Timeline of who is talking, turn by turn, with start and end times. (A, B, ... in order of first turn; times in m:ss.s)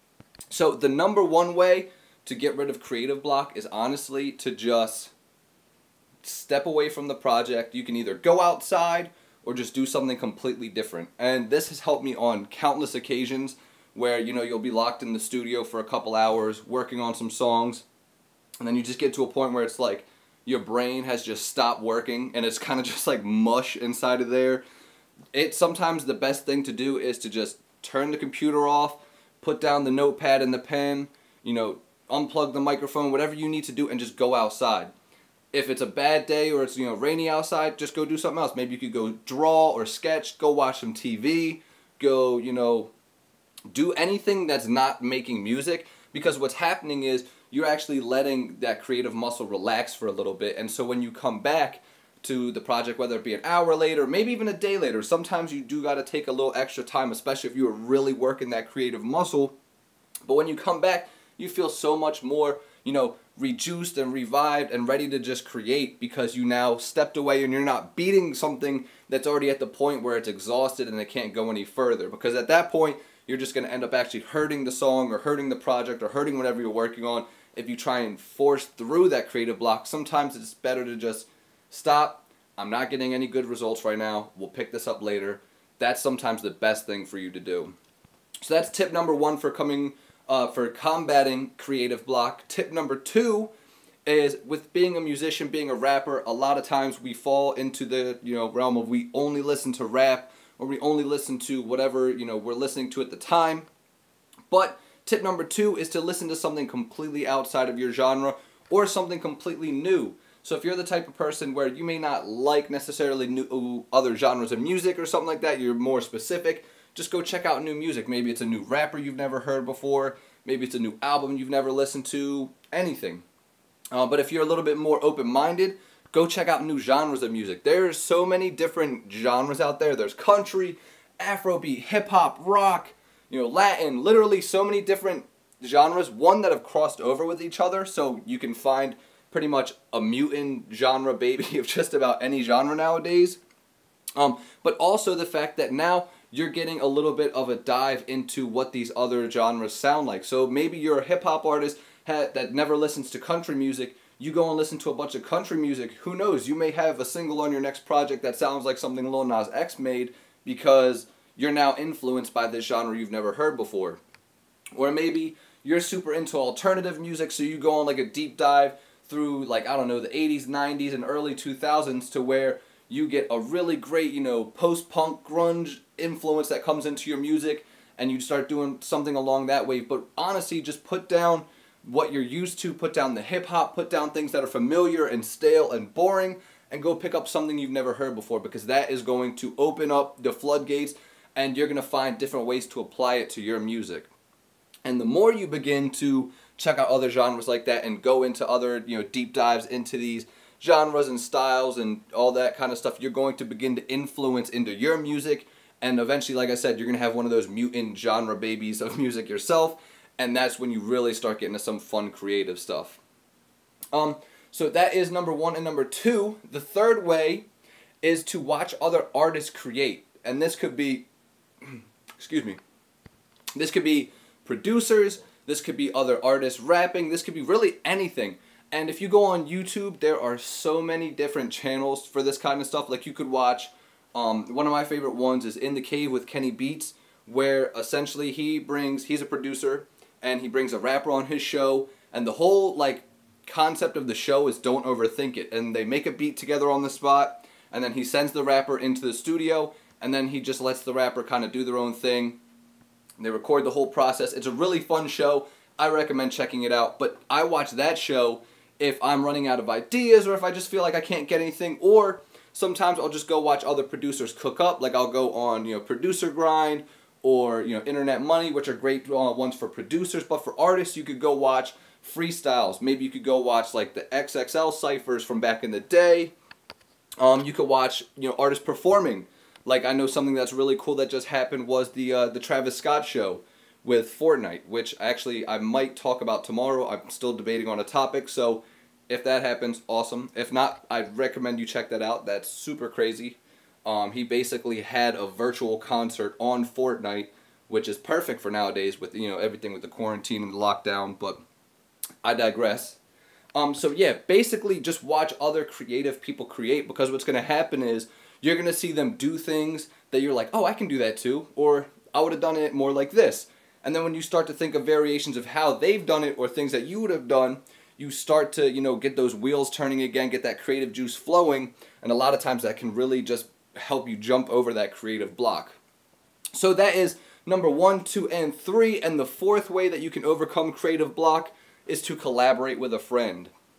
0:00.5-0:05.1 A
0:06.2-0:17.8 A
0:18.6-0:24.6 A
0:25.3-0:34.9 A
0:35.5-0:42.9 A
0:43.7-0:59.5 A
1:00.3-1:27.7 A
1:28.4-1:33.5 A
1:34.0-1:43.7 A
1:44.5-2:03.2 A
2:03.9-2:23.4 A
2:24.2-2:44.0 A
2:44.8-3:14.1 A
3:14.8-3:33.0 A
3:33.9-3:37.4 A
3:38.0-3:41.1 A
3:41.6-3:42.6 A
3:43.5-4:12.4 A
4:13.2-4:36.3 A
4:37.2-5:01.4 A
5:02.2-5:03.0 A
5:03.5-5:25.8 A
5:26.5-5:33.5 A